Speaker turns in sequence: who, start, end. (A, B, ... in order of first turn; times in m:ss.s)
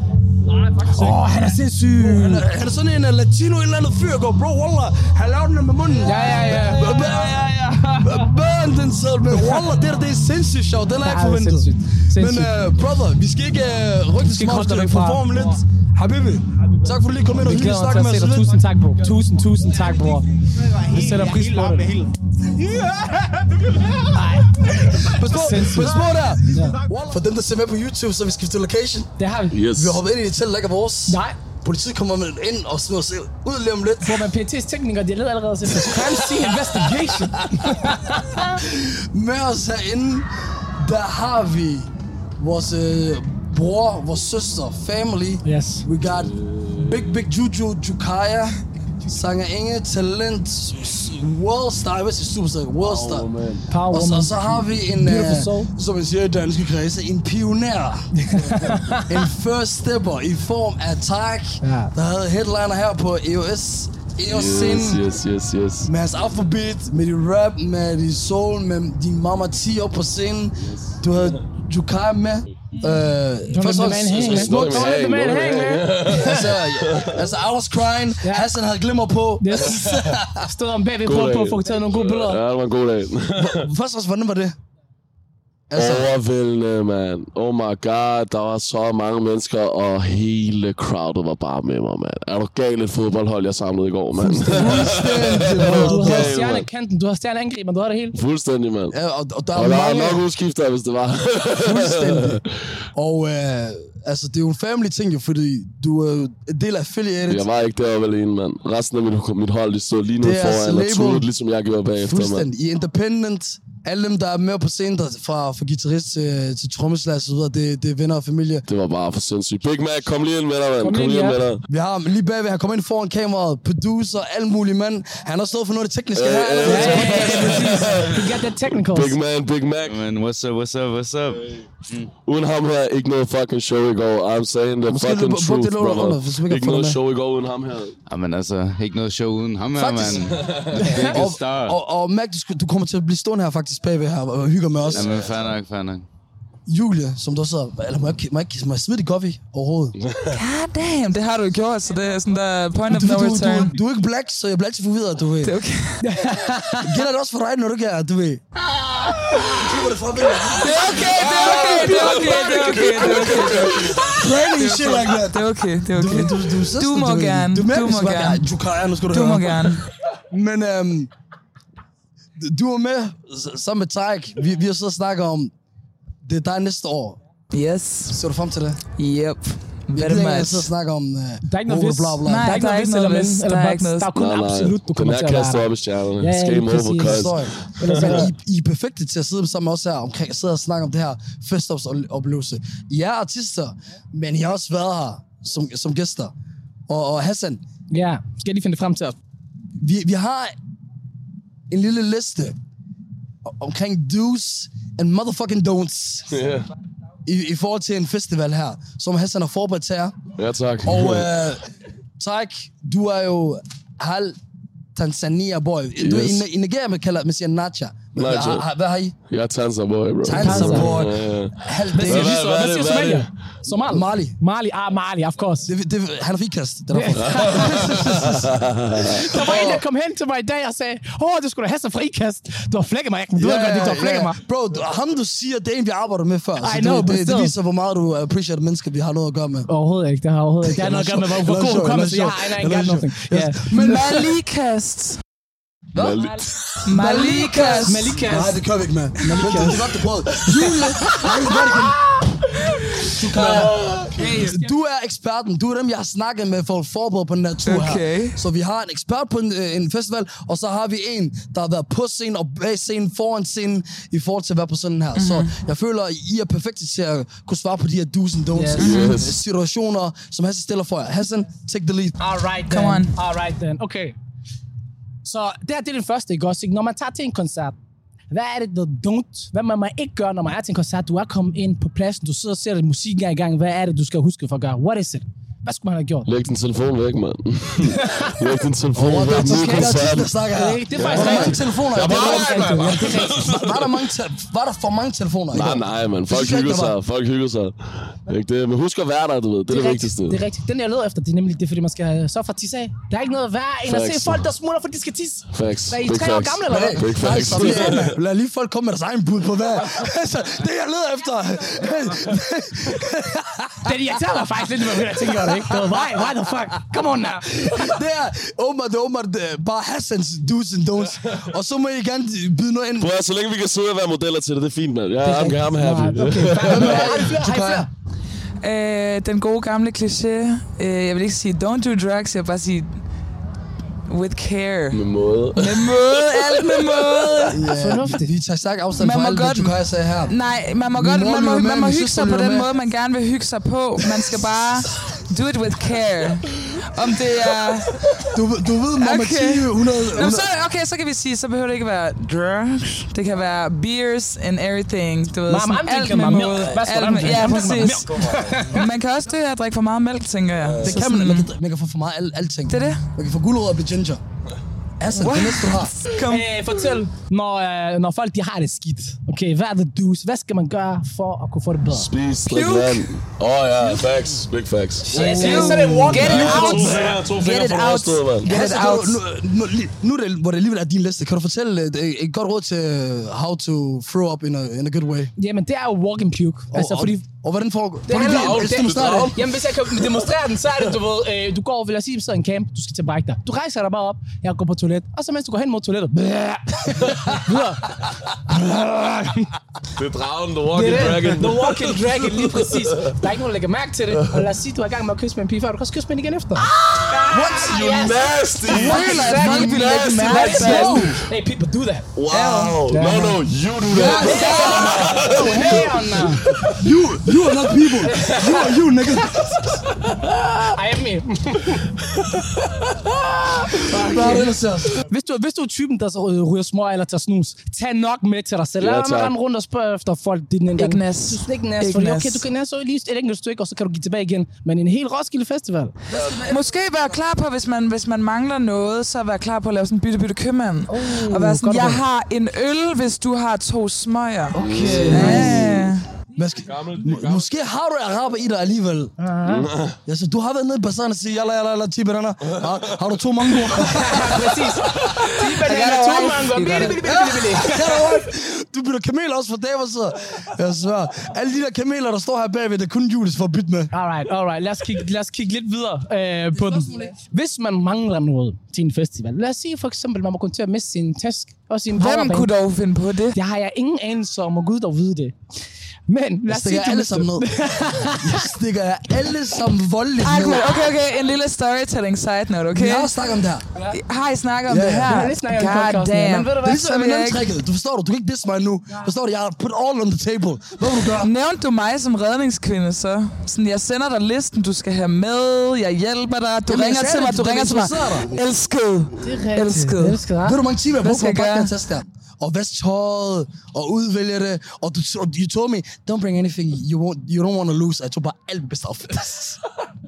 0:00.4-0:01.6 A
0:00.9-0:02.4 B
0:02.0-0:18.6 C
0:06.0-0:06.9 B
0:06.1-0:08.3 A
0:11.0-0:12.6 B
0:14.2-0:15.2 B
0:16.6-0:17.0 A
0:17.3-0:22.1 B
0:21.0-0:22.0 A
0:24.0-0:26.8 B
0:24.8-0:29.1 C
0:29.2-0:29.6 B
0:29.5-0:30.0 D
0:29.7-0:34.3 C
0:31.1-0:31.4 B
0:34.0-0:38.6 B
0:35.7-0:36.8 C
0:37.3-0:53.3 C
0:45.4-0:45.9 B
0:46.1-0:47.0 D
0:52.8-0:53.7 D
0:53.7-0:55.7 B
0:53.9-1:05.0 C
0:58.1-0:59.2 B
1:01.6-1:01.9 B
1:04.2-1:05.9 D
1:05.8-1:14.9 C
1:10.7-1:10.9 D
1:13.5-1:16.5 B
1:13.9-1:17.2 D
1:16.1-1:20.5 C
1:18.2-1:18.5 B
1:19.4-1:22.4 B
1:19.6-1:20.1 D
1:21.0-1:23.7 D
1:23.4-1:24.5 C
1:25.7-1:26.1 C
1:25.7-1:36.6 D
1:34.2-1:35.0 B
1:34.3-1:36.4 C
1:35.5-1:38.2 B
1:38.1-1:38.9 D
1:38.9-1:40.2 C
1:39.5-1:42.4 D
1:41.6-1:42.4 C
1:42.9-1:47.5 C
1:47.3-1:52.5 D
1:50.2-1:51.3 C
1:52.0-1:58.6 C
1:58.7-2:01.6 D
2:00.8-2:01.4 B
2:01.7-2:08.0 C
2:06.1-2:10.0 D
2:06.6-2:09.2 B
2:09.8-2:12.1 E
2:12.2-2:18.0 D
2:14.9-2:17.0 C
2:18.1-2:21.8 E
2:19.7-2:20.4 C
2:20.3-2:20.8 D
2:20.7-2:21.2 B
2:20.9-2:25.2 C
2:24.9-2:25.5 D
2:24.9-2:26.0 E
2:26.7-2:30.0 C
2:30.0-2:30.4 D
2:30.3-2:33.8 F
2:32.9-2:35.6 C
2:35.4-2:36.0 F
2:36.0-2:37.0 B
2:36.8-2:38.4 C
2:39.4-2:51.1 C
2:40.6-2:48.4 F
2:41.0-2:44.2 D
2:49.1-2:49.8 F
2:52.4-2:55.5 C
2:56.2-2:57.2 C
2:57.5-2:58.2 F
2:58.1-2:58.8 C
2:59.0-3:00.7 F
2:59.9-3:02.5 C
3:01.4-3:08.3 B
3:02.2-3:04.1 F
3:04.1-3:08.2 D
3:07.0-3:16.3 C
3:16.9-3:17.6 C
3:17.9-3:19.2 B
3:19.8-3:20.5 C
3:21.7-3:22.6 C
3:23.4-3:26.3 C
3:26.3-3:26.6 D
3:27.2-3:30.2 C
3:30.4-3:31.3 D
3:30.8-3:31.7 C
3:32.2-3:34.4 C
3:34.9-3:39.2 C
3:36.0-3:36.4 D
3:38.2-3:38.6 D
3:39.3-3:43.3 D
3:40.2-3:42.7 C
3:40.3-3:40.9 B
3:41.9-3:45.7 B
3:43.6-3:44.4 C
3:45.6-3:48.6 C
3:46.9-3:48.4 B
3:47.2-3:49.3 D
3:49.0-3:54.4 B
3:49.2-3:49.8 C
3:53.4-3:59.7 C
3:56.6-3:57.5 B
3:59.7-4:03.7 B
4:00.6-4:04.3 C
4:03.7-4:05.2 F
4:05.9-4:06.3 C
4:06.0-4:06.7 D
4:06.8-4:08.2 F
4:06.8-4:12.0 C
4:07.8-4:08.6 B
4:09.2-4:09.9 B
4:10.8-4:11.7 B
4:13.1-4:32.2 C
4:13.3-4:13.6 B
4:13.4-4:14.3 D
4:14.2-4:14.6 F
4:17.6-4:18.4 F
4:25.2-4:25.5 F
4:28.5-4:28.8 B
4:28.8-4:29.3 D
4:28.8-4:29.2 F
4:32.2-4:34.2 B
4:32.7-4:33.1 F
4:35.2-4:37.8 B
4:38.3-4:46.3 B
4:46.2-4:50.4 D
4:47.9-4:48.4 B
4:48.9-4:57.0 C
4:49.3-4:53.4 B
4:50.9-4:54.0 D
4:55.5-5:00.4 D
4:59.7-5:08.1 B
5:03.8-5:04.5 D
5:05.5-5:08.1 D
5:06.7-5:14.1 C
5:13.8-5:17.9 B
5:14.8-5:16.0 C
5:17.5-5:23.1 C
5:23.0-5:27.2 D
5:25.2-5:27.9 B
5:26.6-5:27.9 C
5:28.6-5:33.0 F
5:34.1-5:35.0 F
5:34.9-5:36.1 D
5:35.5-5:37.6 F
5:37.5-5:40.3 C
5:37.7-5:38.3 B
5:39.0-5:48.4 F
5:40.9-5:42.7 C
5:48.2-5:50.5 C
5:49.0-6:01.5 F
5:55.5-5:58.9 B
6:00.6-6:01.0 D
6:00.8-6:04.2 C
6:02.7-6:03.0 F
6:05.0-6:06.0 C
6:05.2-6:06.6 F
6:06.2-6:12.1 B
6:11.9-6:18.5 D
6:12.4-6:13.1 F
6:15.1-6:16.9 B
6:15.1-6:17.1 C
6:15.2-6:19.2 F
6:18.4-6:25.3 C
6:25.4-6:27.2 B
6:26.7-6:29.4 C
6:28.1-6:39.5 B
6:28.2-6:29.5 D
6:40.0-6:43.2 D
6:40.7-6:53.4 B
6:47.0-6:50.8 D
6:47.3-6:47.8 C
6:48.7-6:51.2 C
6:48.7-6:51.2 F
6:52.2-6:56.8 D
6:53.8-6:59.8 C
6:53.9-6:56.5 B
6:54.2-6:54.7 F
6:58.1-6:59.7 B
7:00.6-7:01.8 B
7:03.4-7:15.9 B
7:03.8-7:05.0 C
7:08.8-7:09.3 D
7:10.8-7:12.4 F
7:16.1-7:16.7 C
7:16.1-7:16.5 D
7:16.4-7:26.0 F
7:20.9-7:22.0 B
7:24.5-7:29.1 C
7:24.6-7:25.8 D
7:24.8-7:25.5 B
7:26.6-7:27.7 D
7:29.2-7:29.7 B
7:29.4-7:30.0 D
7:30.0-7:34.7 C
7:33.7-7:38.1 B
7:35.1-7:37.0 F
7:37.0-7:43.9 C
7:43.9-7:52.5 B
7:46.5-7:47.1 C
7:52.0-7:53.4 F
7:53.3-7:55.4 B
7:56.1-7:58.5 B
7:56.5-7:57.5 C
7:58.1-8:00.7 C
8:00.2-8:03.1 F
8:02.7-8:03.6 C
8:03.9-8:07.5 F
8:04.7-8:05.1 C
8:05.1-8:06.8 B
8:06.6-8:11.3 C
8:11.1-8:20.2 F
8:16.7-8:18.4 C
8:19.2-8:20.6 B
8:20.4-8:29.6 C
8:21.0-8:21.7 F